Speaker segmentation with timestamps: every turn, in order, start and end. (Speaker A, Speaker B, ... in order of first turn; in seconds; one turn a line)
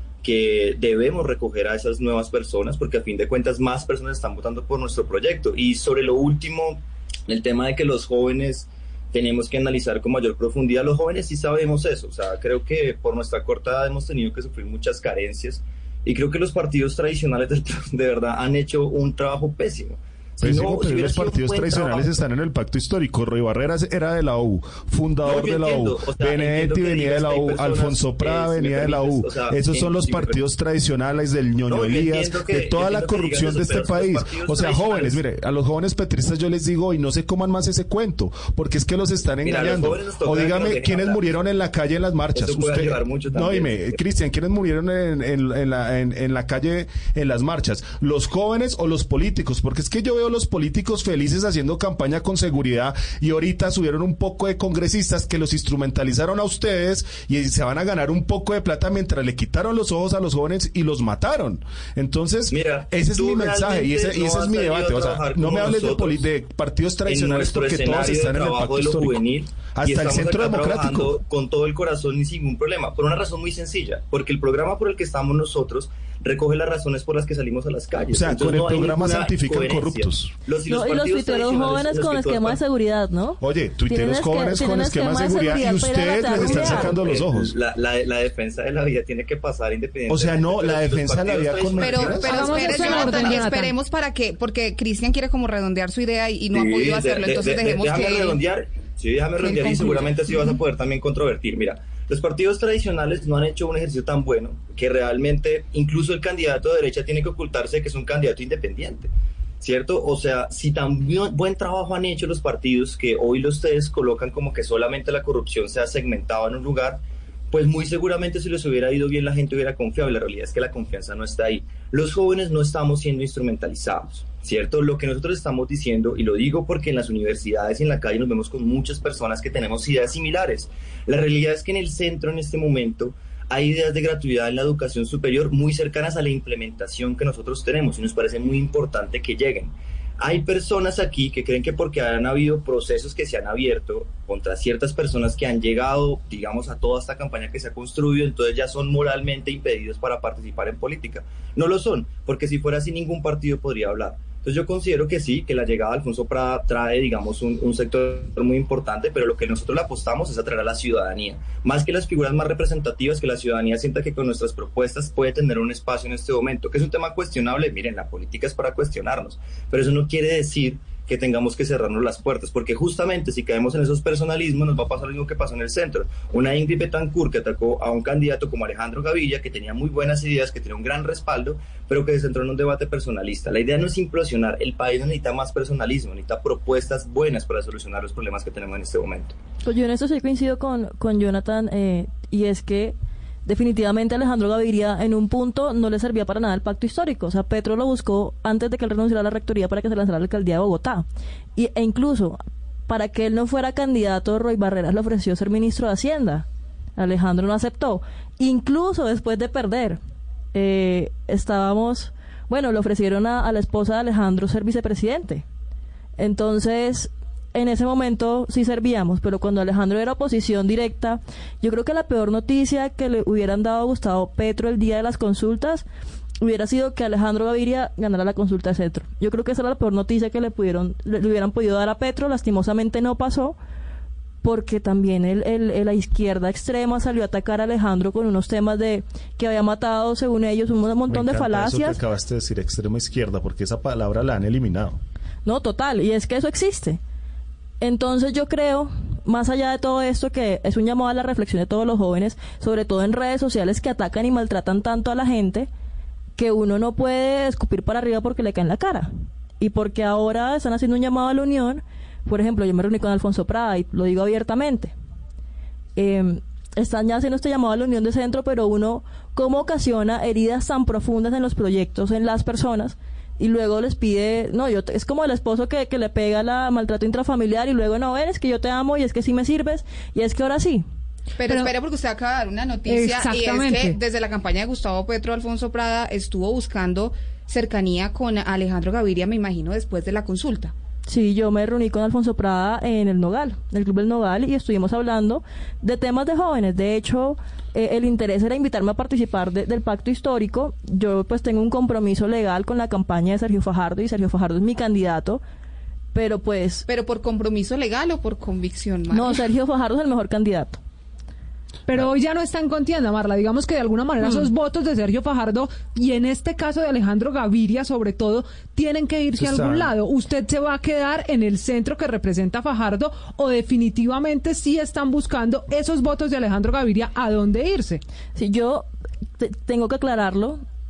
Speaker A: 0.2-22.2
Speaker B: 20.4-71.1
Speaker A: 25.2-30.4
Speaker A: 31.7-35.2
Speaker A: 39.4-41.3
Speaker A: 42.3-44.0
Speaker A: 62.5-66.2
Speaker A: 67.0-82.6
Speaker B: 78.1-80.4
Speaker C: 80.7-86.9
Speaker B: 83.4-87.5
Speaker A: 86.2-93.5
Speaker B: 90.1-92.3
Speaker D: 91.8-98.4
Speaker E: 92.2-93.7
Speaker A: 96.5-189.4
Speaker E: 99.4-100.1
Speaker C: 189.6-206.4
Speaker C: 207.0-210.0
Speaker C: 210.5-215.4
Speaker C: 216.2-225.8
Speaker C: 226.4-233.6
Speaker C: 234.4-242.0
Speaker B: 241.1-245.0
Speaker C: 245.4-247.0
Speaker C: 247.8-255.7
Speaker C: 256.4-264.9
Speaker C: 265.9-280.9
Speaker D: 281.4-290.7
Speaker E: 282.9-284.0
Speaker C: 291.1-305.4
Speaker C: 306.1-306.9
Speaker D: 306.9-309.4
Speaker C: 309.1-310.8
Speaker E: 311.9-328.0
Speaker B: 319.4-319.9
Speaker C: 328.4-328.9
Speaker C: 329.4-330.6